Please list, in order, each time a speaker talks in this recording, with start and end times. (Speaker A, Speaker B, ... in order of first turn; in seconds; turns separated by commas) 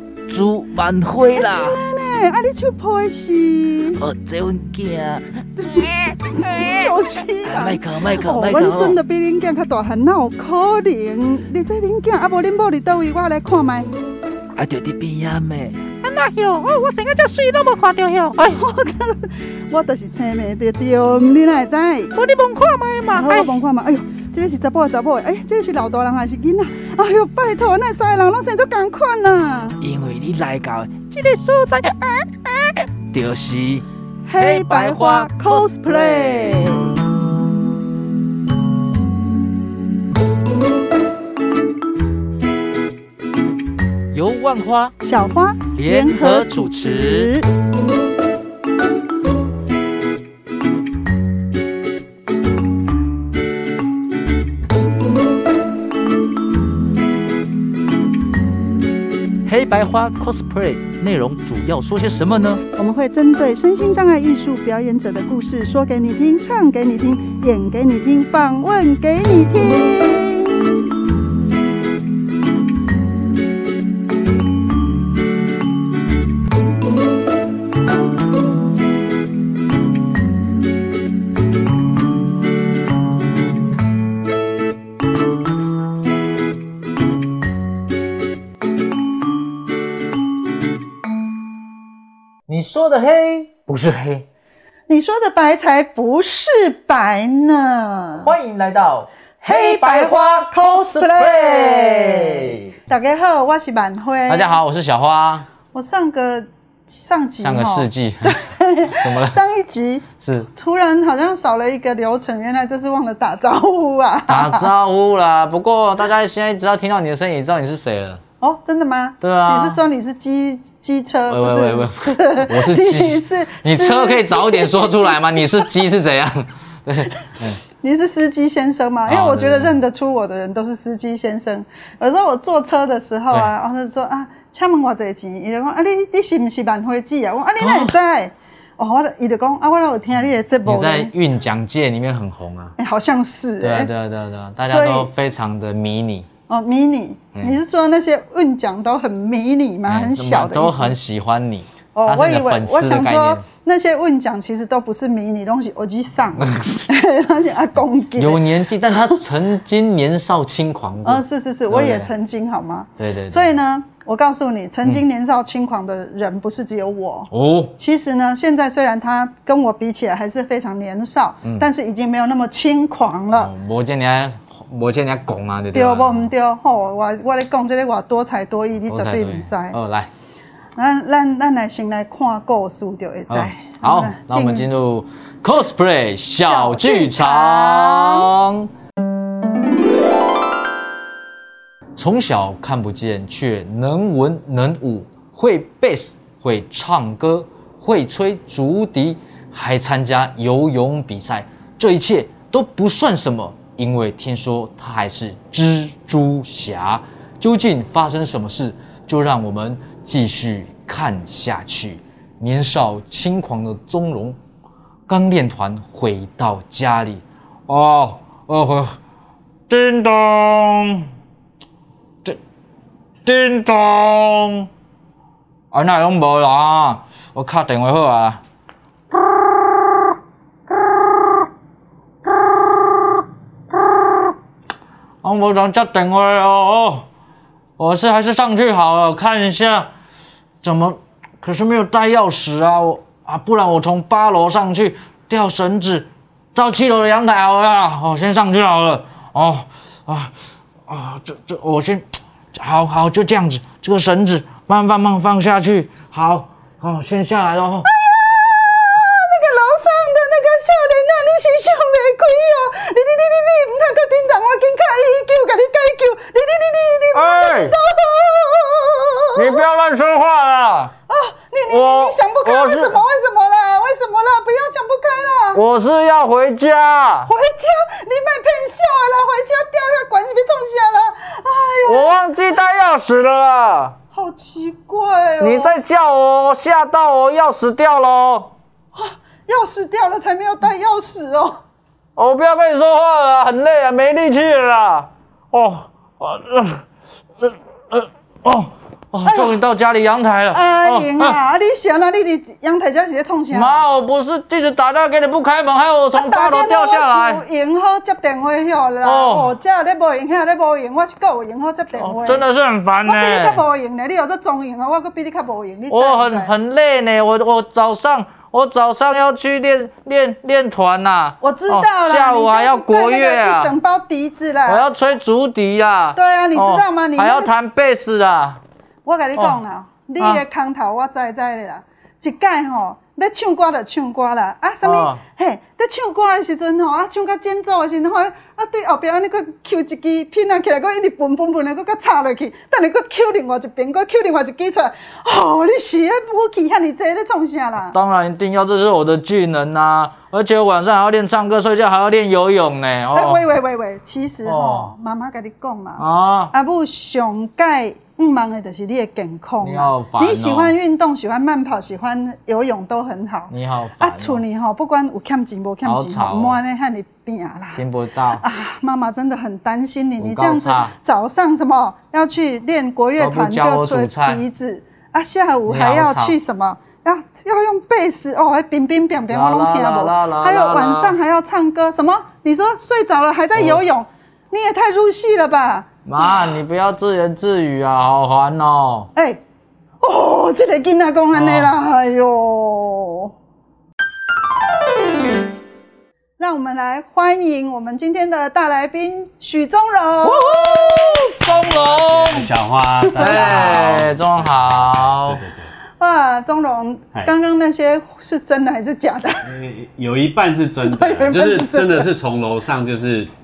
Speaker A: 0.3-1.8, Speaker B: 1.3-4.0, Speaker A: 4.0-5.7, Speaker C: 6.1-6.9, Speaker B: 6.3-13.9, Speaker A: 7.4-9.0, Speaker A: 14.5-15.8, Speaker C: 16.0-18.6, Speaker B: 18.4-22.1, Speaker C: 22.1-23.6, Speaker B: 23.1-29.8, Speaker A: 29.8-31.1, Speaker C: 31.1-32.8, Speaker A: 33.1-33.8, Speaker B: 34.2-36.9, Speaker A: 34.4-36.7, Speaker A: 44.1-44.9, Speaker B: 45.0-47.5, Speaker A: 45.7-47.3, Speaker A: 59.5-62.6, Speaker B: 62.8-70.6, Speaker D: 92.5-94.2, Speaker B: 94.9-98.3, Speaker D: 98.2-102.8, Speaker B: 99.4-104.6, Speaker D: 104.3-105.5, Speaker B: 105.7-114.7, Speaker D: 107.4-109.4, Speaker D: 110.2-110.5, Speaker D: 114.3-118.2, Speaker B: 118.4-125.7, Speaker D: 119.2-119.8, Speaker D: 121.3-127.6, Speaker B: 127.8-141.1, Speaker D: 129.1-129.8, Speaker D: 137.6-137.9, Speaker D: 140.1-142.7, Speaker B: 142.8-143.9, Speaker D: 143.6-146.3, Speaker B: 144.6-145.1, Speaker B: 146.5-150.9, Speaker D: 149.9-153.4, Speaker B: 151.9-158.4, Speaker D: 156.4-156.9, Speaker D: 158.2-162.1, Speaker B: 161.0-173.5, Speaker D: 163.0-163.5, Speaker D: 167.3-167.7, Speaker D: 173.3-176.3, Speaker B: 175.7-179.8, Speaker D: 178.9-180.1, Speaker B: 180.8-184.7, Speaker D: 183.3-188.7, Speaker B: 186.4-188.3, Speaker D: 191.9-214.4, Speaker D: 215.1-218.9, Speaker D: 219.7-221.1, Speaker D: 223.2-224.7, Speaker D: 225.7-228.4, Speaker D: 235.2-237.0, Speaker D: 237.8-239.9, Speaker D: 240.6-250.3, Speaker D: 250.9-252.0, Speaker D: 252.5-257.9, Speaker B: 257.8-269.6, Speaker D: 267.1-267.8, Speaker D: 269.3-270.9, Speaker B: 271.1-275.6, Speaker D: 271.7-273.0, Speaker D: 275.5-277.3, Speaker B: 277.2-282.2, Speaker D: 281.9-283.9, Speaker B: 284.1-285.7, Speaker D: 285.4-288.5, Speaker B: 288.9-291.6, Speaker D: 292.2-296.8, Speaker D: 297.4-301.4, Speaker B: 299.2-299.6, Speaker B: 300.5-303.9, Speaker D: 303.5-307.4, Speaker B: 306.1-312.4, Speaker D: 309.0-309.5, Speaker D: 312.0-313.6, Speaker B: 313.0-316.5, Speaker D: 315.9-323.7, Speaker B: 321.4-324.8, Speaker D: 324.7-328.6, Speaker B: 326.1-327.5, Speaker B: 329.0-347.9, Speaker D: 334.8-335.2, Speaker D: 347.9-353.4, Speaker B: 353.1-367.8, Speaker D: 354.4-354.9, Speaker D: 356.0-356.5, Speaker D: 359.6-360.7, Speaker D: 363.5-364.4, Speaker D: 365.8-366.6, Speaker D: 367.8-368.4, Speaker B: 368.4-386.5, Speaker D: 370.2-370.9, Speaker D: 373.2-374.4, Speaker D: 375.7-376.4, Speaker D: 379.3-381.1, Speaker D: 383.5-383.8, Speaker D: 386.1-389.1, Speaker B: 390.0-393.3, Speaker D: 391.3-391.7, Speaker B: 396.4-401.1, Speaker D: 400.2-402.5, Speaker E: 401.4-405.7, Speaker B: 403.0-403.8, Speaker D: 403.2-405.4, Speaker B: 406.0-409.5, Speaker E: 409.4-413.3, Speaker B: 410.8-412.1